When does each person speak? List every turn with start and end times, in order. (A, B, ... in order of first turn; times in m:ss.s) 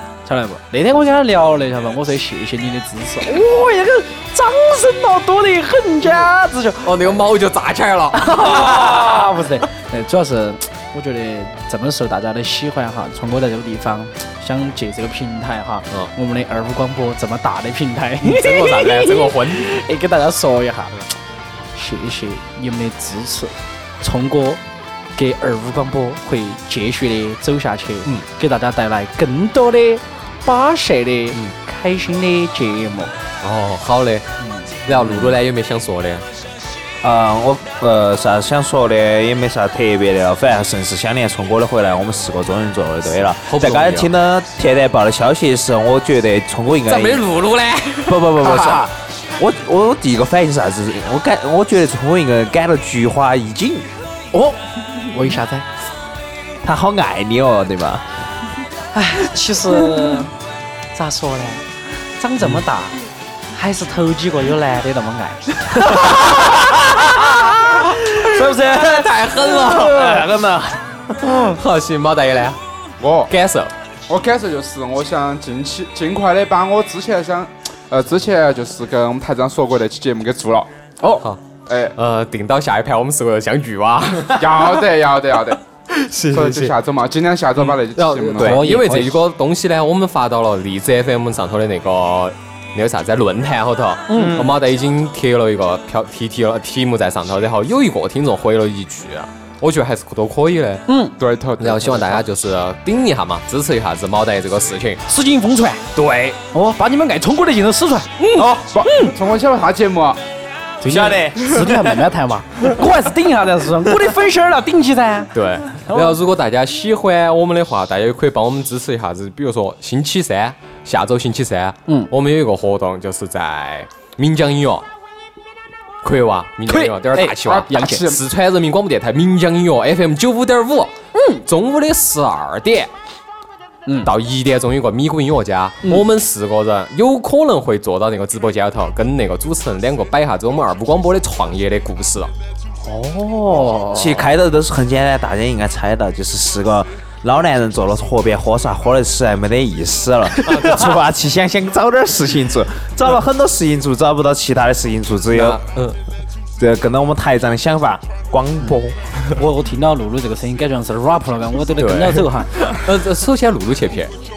0:00.2-0:07.2 A
0:06.8-0:09.0 B
0:08.1-0:21.0 A
0:18.2-0:19.7 B
0:21.7-0:24.6 A
0:25.2-0:33.1 A
0:33.4-0:36.2 B
0:34.4-0:34.7 A
0:37.0-0:47.2 C
0:43.4-0:44.1 B
0:46.9-0:48.7 B
0:48.0-0:53.9 C
0:48.4-0:48.8 A
0:54.3-0:55.6 A
0:56.6-0:58.0 C
0:58.9-1:00.3 A
1:00.9-1:01.6 A
1:02.2-1:03.0 A
1:03.5-1:06.5 A
1:07.1-1:10.2 A
1:08.0-1:10.1 B
1:09.7-1:11.4 C
1:11.4-1:12.6 B
1:13.0-1:13.3 D
1:13.3-1:13.7 B
1:14.1-1:20.7 D
1:21.7-1:21.9 D
1:22.0-1:24.8 B
1:24.3-1:25.6 D
1:25.9-1:26.7 B
1:26.3-1:28.6 D
1:27.7-1:40.9 B
1:28.4-1:29.1 A
1:34.1-1:34.4 A
1:34.1-1:34.5 C
1:40.9-1:41.1 A
1:41.2-1:42.2 D
1:41.6-1:45.0 B
1:45.1-1:45.8 A
1:46.0-1:46.4 B
1:46.5-1:49.1 A
1:48.5-1:50.2 D
1:50.8-1:56.2 A
1:50.8-1:52.0 C
1:55.3-2:04.8 B
2:06.0-2:12.9 B
2:06.7-2:08.2 A
2:07.4-2:08.1 D
2:11.1-2:11.4 A
2:13.8-2:14.1 A
2:14.0-2:22.3 B
2:22.8-2:24.2 A
2:23.9-2:35.6 C
2:30.4-2:30.9 B
2:35.3-2:36.0 B
2:36.6-2:39.0 C
2:39.4-2:42.5 A
2:41.8-2:44.1 B